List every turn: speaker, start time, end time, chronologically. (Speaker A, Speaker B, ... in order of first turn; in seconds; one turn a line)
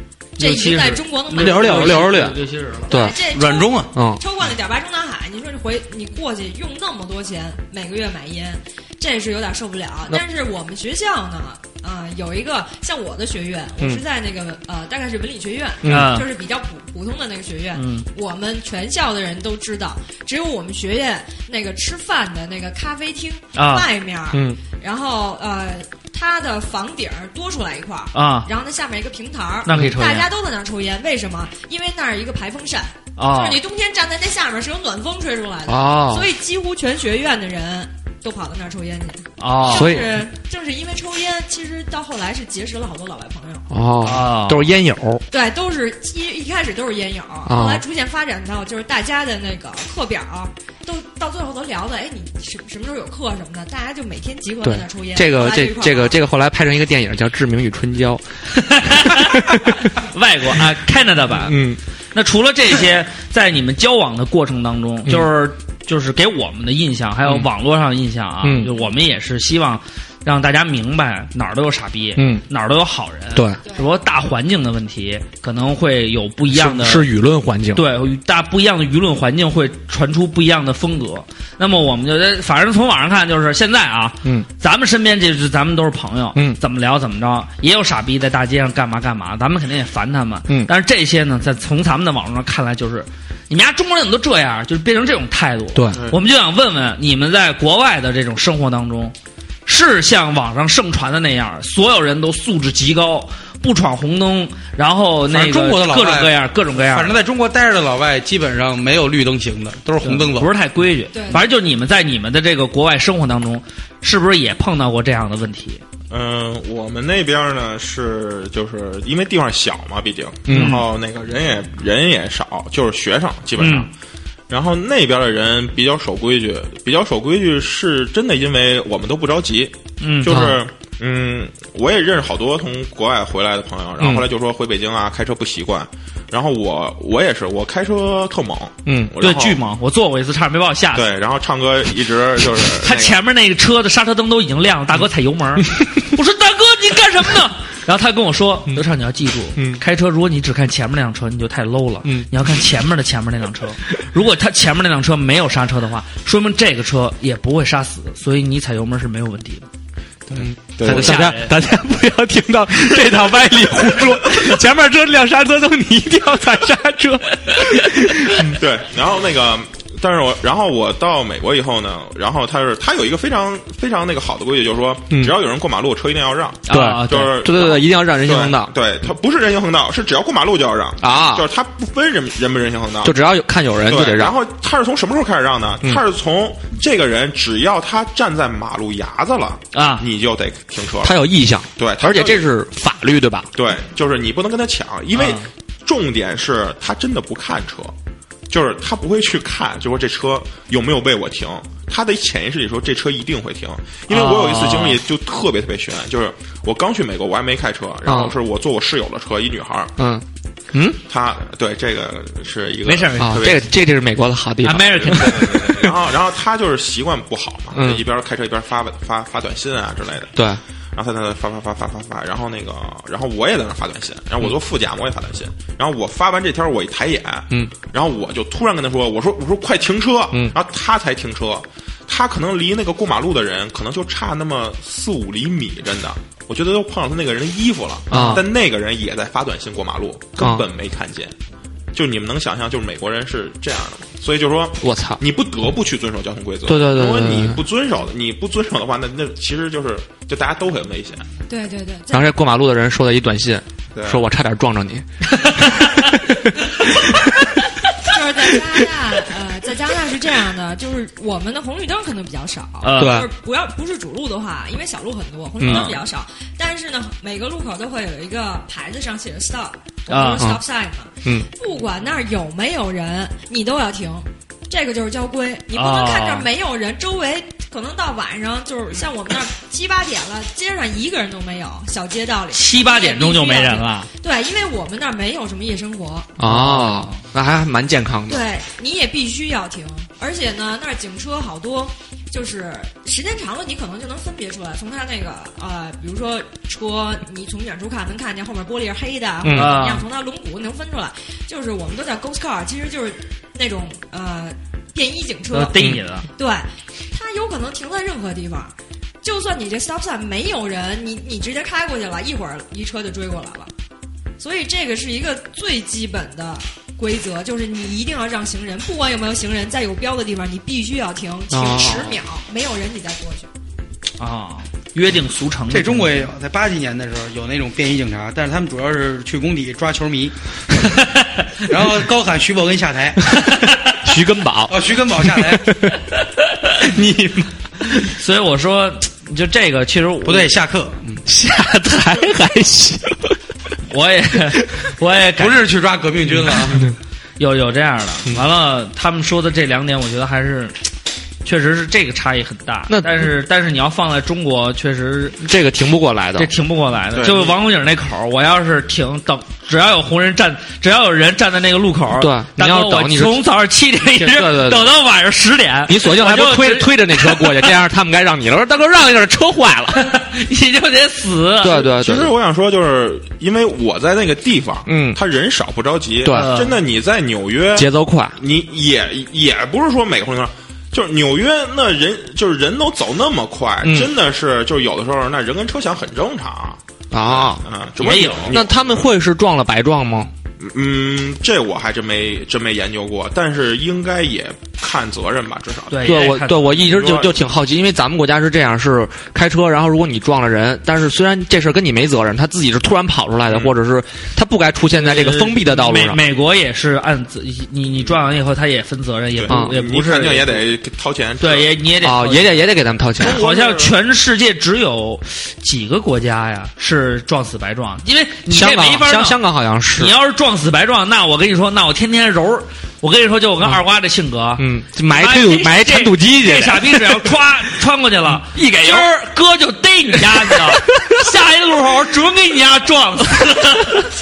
Speaker A: 0.4-2.1
Speaker B: 0.4-2.9
Speaker C: 1.3-2.4
Speaker C: 2.9-3.2
Speaker A: 2.9-43.6
Speaker D: 3.3-3.9
Speaker C: 3.9-4.2
Speaker C: 15.8-16.1
Speaker B: 15.9-16.3
Speaker B: 17.7-18.1
Speaker B: 23.6-23.9
Speaker C: 24.3-24.6
Speaker B: 28.1-28.5
Speaker B: 29.6-30.3
Speaker B: 33.2-33.6
Speaker C: 35.7-36.3
Speaker B: 39.4-40.0
Speaker C: 39.6-40.2
Speaker C: 43.7-45.2
Speaker B: 44.0-44.7
Speaker A: 45.3-56.2
Speaker C: 47.5-47.8
Speaker C: 54.6-58.2
Speaker B: 58.5-61.6
Speaker C: 58.9-59.8
Speaker C: 61.4-61.8
Speaker B: 62.1-77.1
Speaker C: 72.2-72.4
Speaker C: 73.3-73.6
Speaker A: 73.6-73.9
Speaker C: 76.5-77.8
Speaker B: 77.7-99.1
Speaker E: 95.9-96.2
Speaker B: 99.7-107.2
Speaker D: 105.3-110.5
Speaker B: 110.0-115.8
Speaker A: 111.1-111.5
Speaker E: 116.1-123.9
Speaker C: 120.5-120.8
Speaker B: 120.5-120.8
Speaker B: 123.6-123.9
Speaker E: 124.5-139.6
Speaker B: 130.0-130.5
Speaker C: 130.3-130.6
Speaker C: 134.0-134.3
Speaker C: 138.8-139.1
Speaker B: 139.2-141.1
Speaker E: 140.9-143.2
Speaker B: 142.8-159.7
Speaker E: 160.3-161.3
Speaker C: 160.3-168.6
Speaker B: 160.8-161.5
Speaker E: 168.4-183.2
Speaker B: 176.7-177.3
Speaker C: 176.7-178.7
Speaker C: 181.0-181.4
Speaker C: 183.0-184.3
Speaker E: 183.8-191.2
Speaker B: 189.7-190.0
Speaker C: 191.0-193.5
Speaker E: 191.8-192.4
Speaker E: 193.5-197.9
Speaker B: 195.1-195.5
Speaker E: 198.5-209.9
Speaker B: 204.1-205.0
Speaker C: 208.1-208.3
Speaker C: 210.0-211.0
Speaker E: 211.1-213.7
Speaker B: 212.8-213.5
Speaker C: 213.2-215.9
Speaker B: 214.6-215.8
Speaker E: 214.7-220.3
Speaker C: 217.7-218.0
Speaker C: 220.3-220.6
Speaker E: 220.9-241.3
Speaker C: 238.1-238.4
Speaker C: 240.4-240.6
Speaker E: 241.9-251.2
Speaker C: 244.8-245.2
Speaker C: 246.7-247.6
Speaker A: 251.5-252.4
Speaker C: 252.1-255.0
Speaker E: 253.9-254.2
Speaker B: 255.4-256.1
Speaker C: 255.6-256.3
Speaker A: 258.0-286.3
Speaker B: 262.8-263.2
Speaker C: 263.0-263.3
Speaker C: 265.6-265.9
Speaker B: 265.6-266.0
Speaker B: 270.1-270.4
Speaker B: 275.7-276.5
Speaker B: 282.5-284.1
Speaker C: 286.4-288.4
Speaker B: 286.4-287.2
Speaker A: 288.3-313.7
Speaker C: 299.4-299.8
Speaker B: 299.5-300.0
Speaker B: 305.5-306.3
Speaker A: 314.4-323.5
Speaker C: 321.5-322.2
Speaker B: 324.2-326.1
Speaker D: 325.7-330.3
Speaker D: 331.7-333.2
Speaker C: 333.4-336.0
Speaker D: 334.7-335.8
Speaker C: 336.8-338.1
Speaker B: 338.1-340.5
Speaker D: 340.2-341.2
Speaker C: 341.2-343.4
Speaker B: 343.9-345.6
Speaker D: 345.4-346.9
Speaker C: 346.4-346.9
Speaker B: 347.4-350.9
Speaker B: 351.4-355.4
Speaker C: 352.9-353.3
Speaker C: 355.4-356.5
Speaker B: 356.4-367.7
Speaker E: 357.1-357.6
Speaker C: 362.2-363.4
Speaker C: 364.1-364.9
Speaker C: 365.9-370.1
Speaker B: 370.0-371.8
Speaker C: 371.6-372.3
Speaker E: 371.7-389.0
Speaker C: 374.9-375.2
Speaker C: 376.2-376.5
Speaker B: 376.3-376.8
Speaker C: 377.8-378.4
Speaker C: 383.8-384.1
Speaker C: 387.1-390.3
Speaker B: 388.0-388.6
Speaker E: 390.6-396.2
Speaker B: 395.9-397.1
Speaker C: 396.0-406.2
Speaker E: 396.8-397.3
Speaker E: 403.5-403.7
Speaker B: 404.9-410.6
Speaker E: 409.4-411.8
Speaker C: 409.5-409.8
Speaker B: 411.4-419.4
Speaker C: 412.0-413.4
Speaker E: 413.2-413.9
Speaker C: 418.5-420.1
Speaker B: 420.0-434.1
Speaker C: 424.6-427.4
Speaker C: 428.5-429.1
Speaker C: 430.2-431.1